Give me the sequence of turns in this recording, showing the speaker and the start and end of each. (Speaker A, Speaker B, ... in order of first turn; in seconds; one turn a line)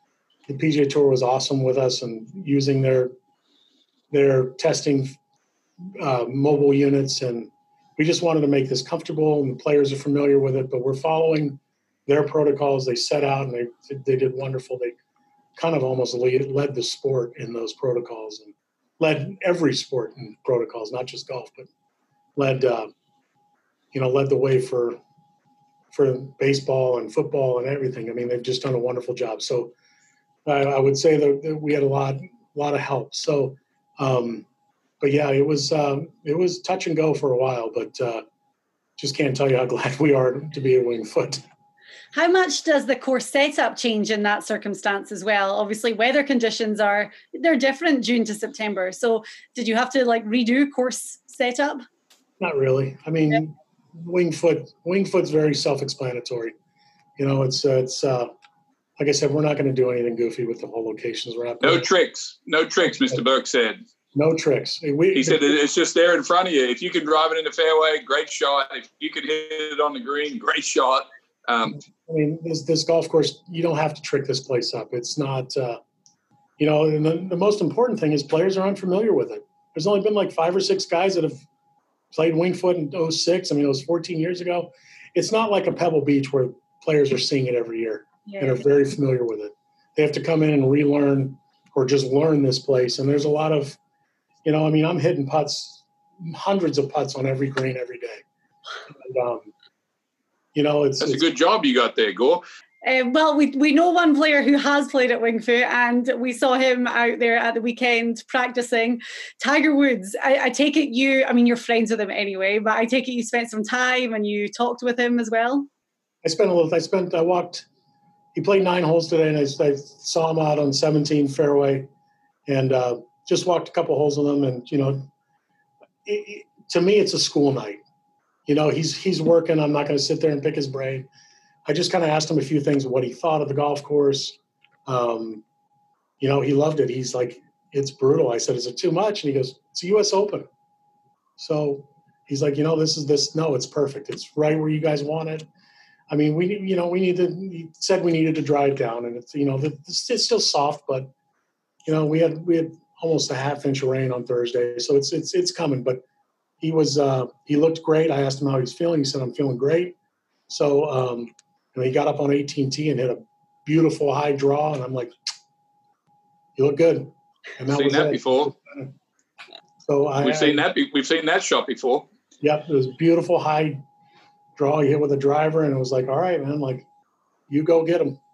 Speaker A: 0.5-3.1
Speaker A: 4.1-5.2
Speaker A: 5.8-14.9
Speaker A: 15.6-21.7
Speaker A: 22.4-22.9
Speaker A: 23.9-25.0
Speaker A: 25.9-29.7
Speaker A: 30.4-34.5
Speaker A: 35.0-38.2
Speaker A: 39.0-41.4
Speaker B: 42.1-51.8
Speaker A: 52.4-56.5
Speaker A: 57.2-58.3
Speaker A: 59.0-61.9
Speaker C: 61.6-63.8
Speaker A: 62.9-63.2
Speaker A: 64.1-65.5
Speaker C: 65.1-71.8
Speaker A: 71.7-75.8
Speaker A: 76.6-81.4
Speaker A: 82.1-93.8
Speaker B: 88.3-88.5
Speaker A: 94.4-98.2
Speaker A: 99.0-99.5
Speaker A: 100.5-101.2
Speaker C: 101.0-102.4
Speaker B: 102.8-115.7
Speaker A: 116.2-117.7
Speaker A: 118.3-121.9
Speaker A: 122.5-125.1
Speaker A: 126.0-127.8
Speaker A: 128.5-131.1
Speaker A: 131.7-135.4
Speaker A: 136.2-140.5
Speaker A: 141.4-145.5
Speaker A: 146.1-151.1
Speaker A: 151.9-156.0
Speaker A: 156.6-159.9
Speaker A: 160.5-165.1
Speaker A: 166.6-168.9
Speaker C: 167.7-168.5
Speaker A: 169.8-170.7
Speaker C: 170.2-172.1
Speaker A: 172.4-173.8
Speaker A: 174.6-176.9
Speaker A: 177.5-178.2